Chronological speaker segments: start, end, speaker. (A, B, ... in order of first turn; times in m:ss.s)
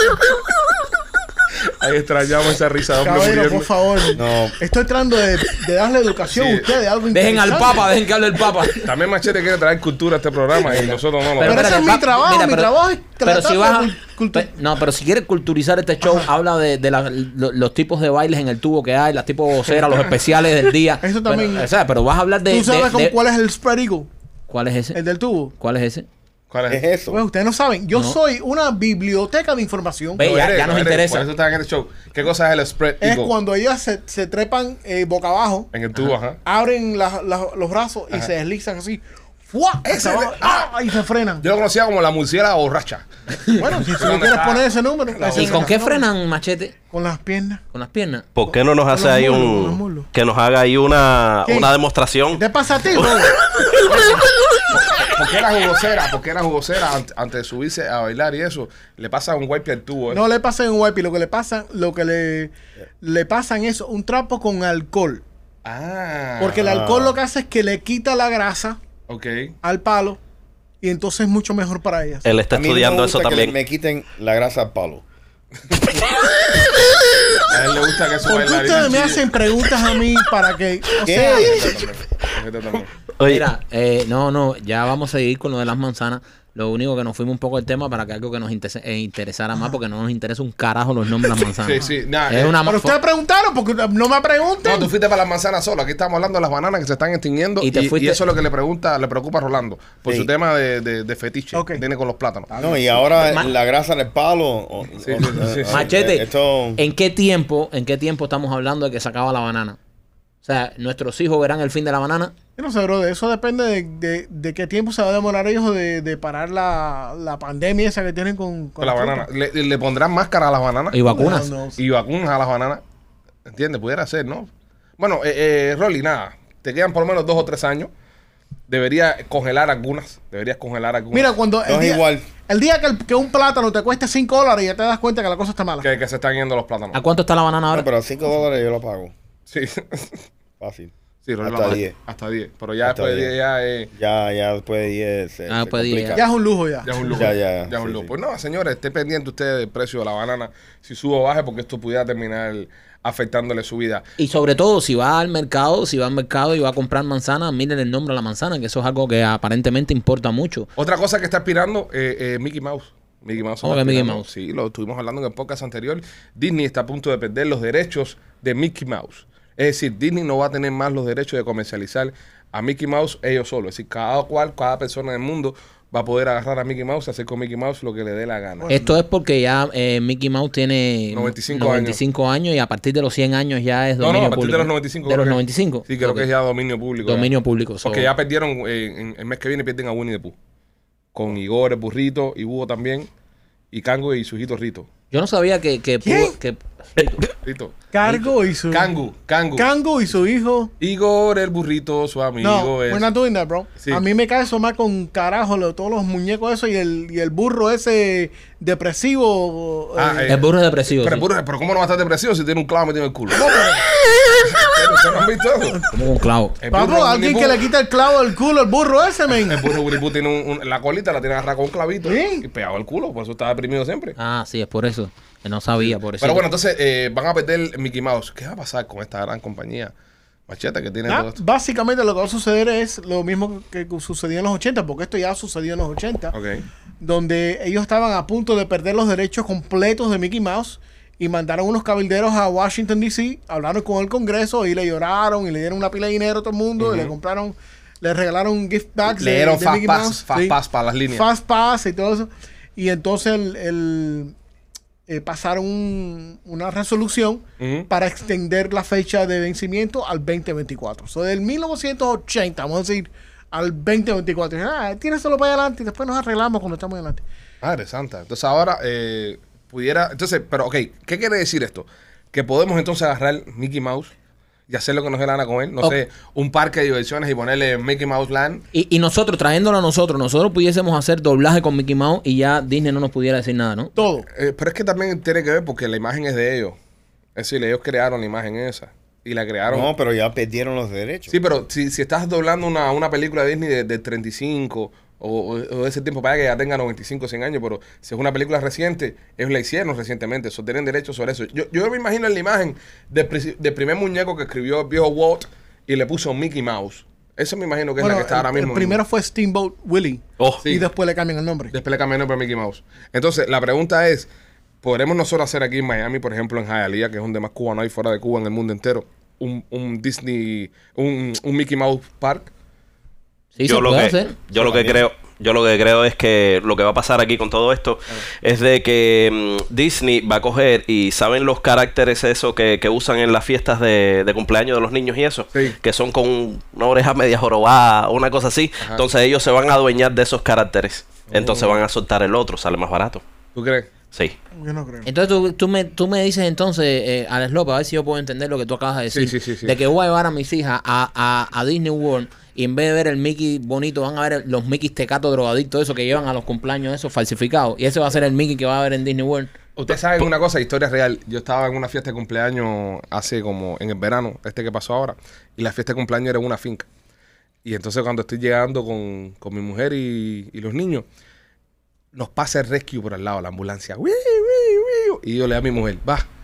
0:01.8-0:03.7 A
0:03.0-0:07.9 B
0:04.1-0:04.6 C
0:06.3-0:06.7 A
0:07.1-0:08.9 D
0:08.8-0:11.8 A
0:10.7-0:23.2 D
0:11.4-0:14.5 B
0:16.0-0:16.3 B
0:21.0-0:21.7 B
0:22.5-0:24.1 B
0:24.5-0:25.0 D
0:24.9-0:25.5 B
0:25.6-0:26.1 D
0:26.5-0:26.8 A
0:26.7-0:27.2 C
0:27.1-0:30.2 B
0:30.2-0:31.3 D
0:30.2-0:33.3 A
0:33.0-0:35.7 B
0:35.7-0:36.4 A
0:36.4-0:41.4 B
0:39.8-0:40.8 A
0:41.4-0:43.0 A
0:43.6-0:46.0 B
0:43.9-0:45.7 A
0:45.3-0:46.8 D
0:46.9-0:47.6 B
0:47.7-0:48.3 D
0:48.4-0:52.4 E
0:48.5-0:50.1 B
0:51.5-0:51.7 B
0:52.3-0:53.4 B
0:53.9-1:00.2 A
1:00.1-1:05.2 B
1:05.6-1:06.7 A
1:06.4-1:08.8 B
1:06.6-1:07.2 C
1:09.1-1:09.6 A
1:09.6-1:10.2 B
1:10.8-1:12.3 B
1:12.2-1:13.5 E
1:12.5-1:15.0 C
1:17.5-1:19.2 A
1:18.3-1:21.8 B
1:21.0-1:21.8 C
1:21.2-1:22.9 A
1:23.2-1:23.5 E
1:23.2-1:33.0 D
1:31.6-1:32.6 A
1:32.6-1:34.9 B
1:34.6-1:42.5 A
1:37.6-1:38.2 D
1:41.5-1:41.8 B
1:42.5-1:43.0 B
1:42.6-1:46.8 C
1:43.2-1:43.5 D
1:45.0-1:45.9 A
1:45.7-1:49.8 D
1:50.4-1:52.3 D
1:52.6-1:59.3 B
1:58.8-2:02.8 A
2:00.9-2:01.5 D
2:01.1-2:01.8 B
2:03.5-2:07.9 A
2:08.7-2:11.3 A
2:11.1-2:15.9 B
2:11.7-2:12.3 C
2:15.8-2:17.0 A
2:16.9-2:17.9 D
2:17.7-2:19.1 C
2:19.5-2:20.2 A
2:20.6-2:22.0 C
2:21.2-2:23.9 A
2:22.8-2:23.3 C
2:23.9-2:26.3 C
2:25.5-2:26.2 D
2:26.1-2:27.2 B
2:26.8-2:34.1 A
2:27.1-2:28.1 C
2:34.2-2:40.7 D
2:40.8-2:58.7 A
2:43.6-2:44.3 D
2:58.6-2:59.0 B
2:58.7-3:06.3 D
3:01.1-3:02.0 A
3:04.0-3:07.3 A
3:07.0-3:08.1 D
3:07.8-3:10.4 A
3:11.1-3:13.1 A
3:13.7-3:14.9 A
3:15.1-3:17.2 D
3:16.0-3:16.4 B
3:17.4-3:19.7 A
3:17.9-3:18.9 B
3:19.6-3:20.7 B
3:20.8-3:23.1 A
3:22.4-3:30.4 B
3:23.8-3:24.0 A
3:30.0-3:33.8 A
3:30.3-3:31.3 D
3:33.5-3:33.8 B
3:34.4-3:35.8 A
3:35.9-3:36.6 D
3:36.6-3:37.6 A
3:36.7-3:39.7 B
3:39.4-3:44.2 A
3:42.0-3:42.4 B
3:44.2-3:46.4 D
3:45.8-3:49.9 A
3:50.5-3:51.4 A
3:51.1-3:56.4 B
3:56.3-3:56.6 A
3:57.0-4:10.6 B
4:06.8-4:07.2 A
4:09.1-4:11.3 A
4:11.1-4:14.3 B
4:15.1-4:27.2 B
4:17.6-4:17.9 A
4:27.6-4:34.1 A
4:34.7-4:38.6 A
4:38.7-4:43.9 D
4:44.0-4:44.3 B
4:44.4-4:46.8 A
4:47.4-4:49.9 A
4:49.7-4:51.4 C
4:51.3-5:09.0 A
5:08.0-5:11.7 B
5:10.6-5:10.9 A
5:11.7-5:14.3 A
5:14.8-5:22.5 A
5:23.6-5:24.4 D
5:23.6-5:43.2 E
5:41.3-5:41.8 A
5:43.6-5:43.9 A
5:44.6-5:45.1 B
5:45.0-5:59.5 D
5:49.1-5:49.7 A
5:59.8-6:06.9 A
6:07.6-6:11.0 A
6:12.1-6:16.3 A